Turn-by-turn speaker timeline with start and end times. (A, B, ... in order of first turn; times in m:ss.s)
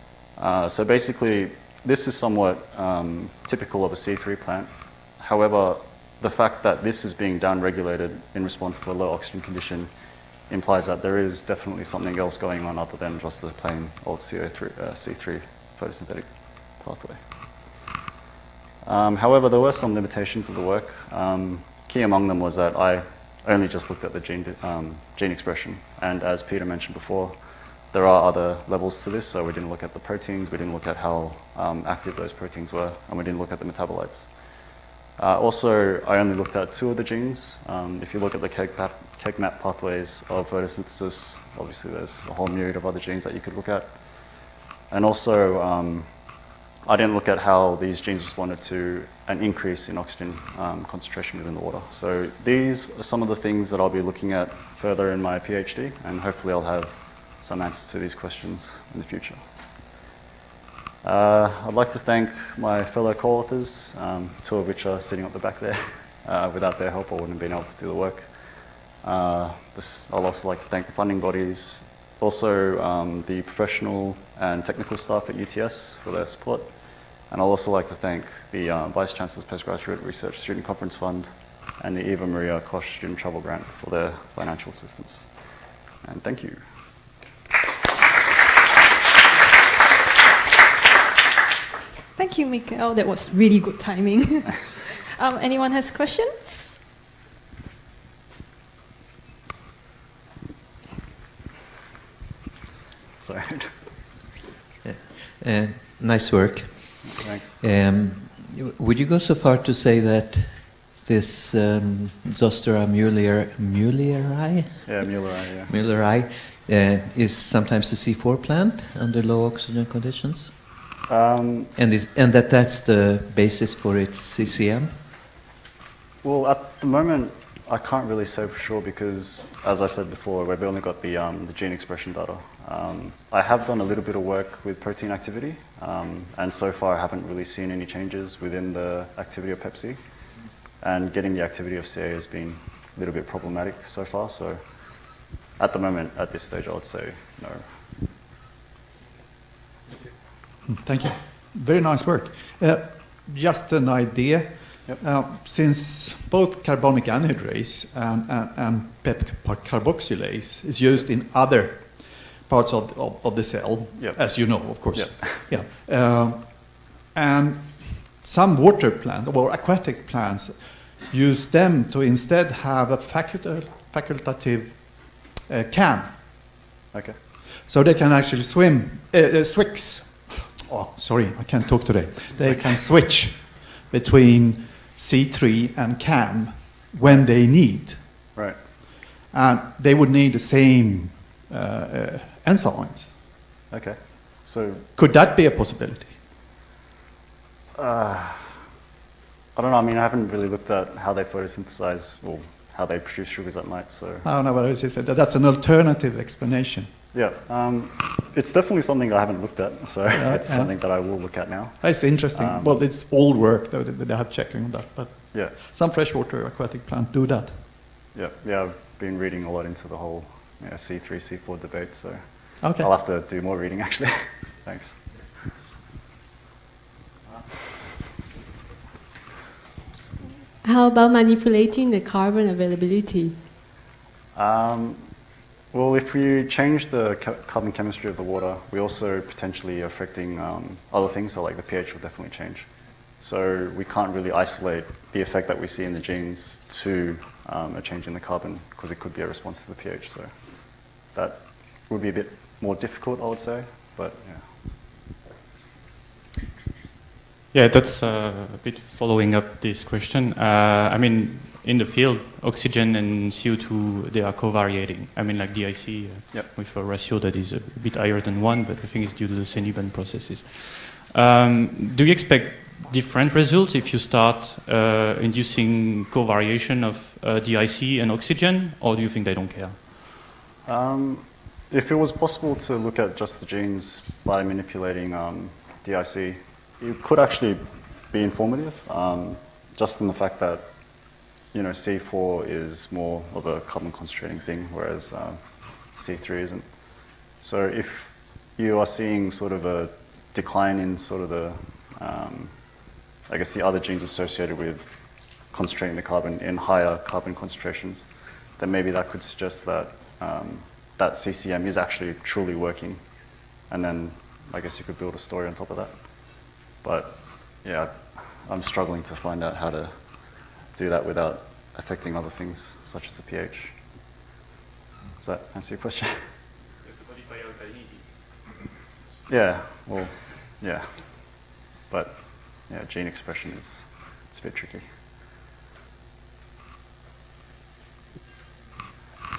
0:00.4-0:09.9 A
0:10.5-0:17.2 A
0:18.8-0:27.4 A
0:27.9-0:34.3 A
0:35.2-0:44.0 A
0:44.9-0:46.1 A
0:46.9-0:59.4 A
1:01.0-1:08.3 A
1:09.0-1:16.8 A
1:17.3-1:21.3 A
1:21.8-1:25.3 A
1:26.0-1:26.6 A
1:32.2-1:36.8 B
1:43.2-1:43.7 A
1:45.3-1:47.0 C
1:47.0-1:47.6 A
1:47.6-1:54.8 C
1:54.8-1:55.7 A
1:55.7-2:00.5 C
2:01.1-2:01.7 A
2:01.8-2:04.9 C
2:06.2-2:20.0 A
2:20.8-2:24.7 A
2:25.6-2:27.7 A
2:30.6-2:56.1 D
2:44.0-2:45.4 A
2:57.6-3:08.0 D
3:09.3-3:13.2 D
3:13.7-3:14.8 A
3:15.0-3:16.2 D
3:17.8-3:18.5 A
3:19.6-3:24.3 A
3:24.2-3:26.9 D
3:27.1-3:32.8 A
3:30.1-3:31.1 D
3:31.8-3:37.6 D
3:38.2-3:45.0 A
3:42.6-3:42.9 D
3:50.6-3:53.4 E
3:54.4-3:55.1 A
3:55.7-4:02.7 A
4:03.2-4:10.4 A
4:11.1-4:14.5 A
4:17.5-4:39.9 F
4:40.7-4:47.6 A
4:48.1-4:50.6 A
4:51.5-4:55.4 A
4:56.0-4:56.6 A
4:57.4-5:02.5 A
5:03.3-5:04.9 A
5:05.5-5:08.1 A
5:08.6-5:13.0 A
5:13.7-5:19.9 A
5:20.7-5:23.8 A
5:25.2-5:26.2 A
5:27.2-5:27.9 F
5:29.3-5:34.9 A